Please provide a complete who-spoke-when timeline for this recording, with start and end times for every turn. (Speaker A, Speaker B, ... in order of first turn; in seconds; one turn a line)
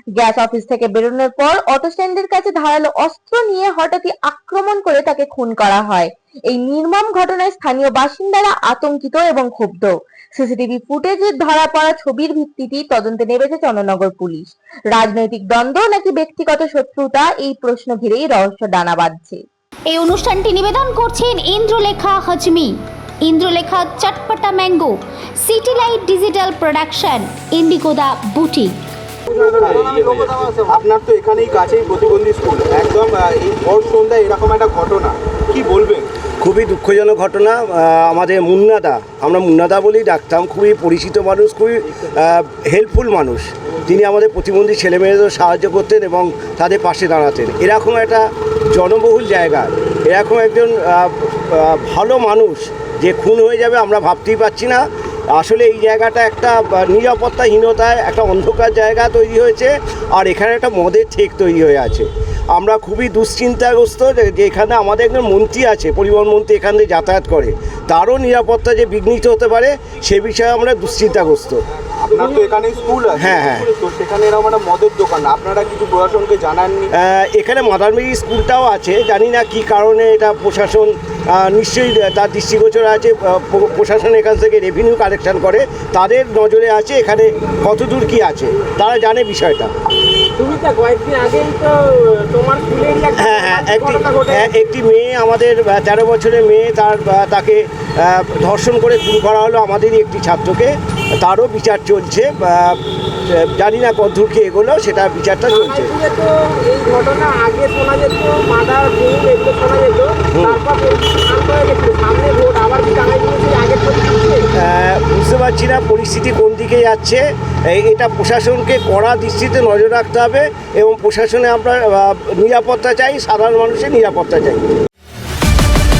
Speaker A: 0.1-19.4
Speaker B: 19.9-28.8
Speaker C: 29.3-30.6
Speaker D: 29.4-36.1
Speaker E: 36.4-71.6
Speaker D: 72.0-76.9
Speaker E: 73.1-73.7
Speaker E: 77.0-89.7
Speaker C: 90.3-94.5
Speaker E: 93.2-105.9
Speaker C: 105.5-114.5
Speaker E: 110.3-110.6
Speaker E: 114.6-124.7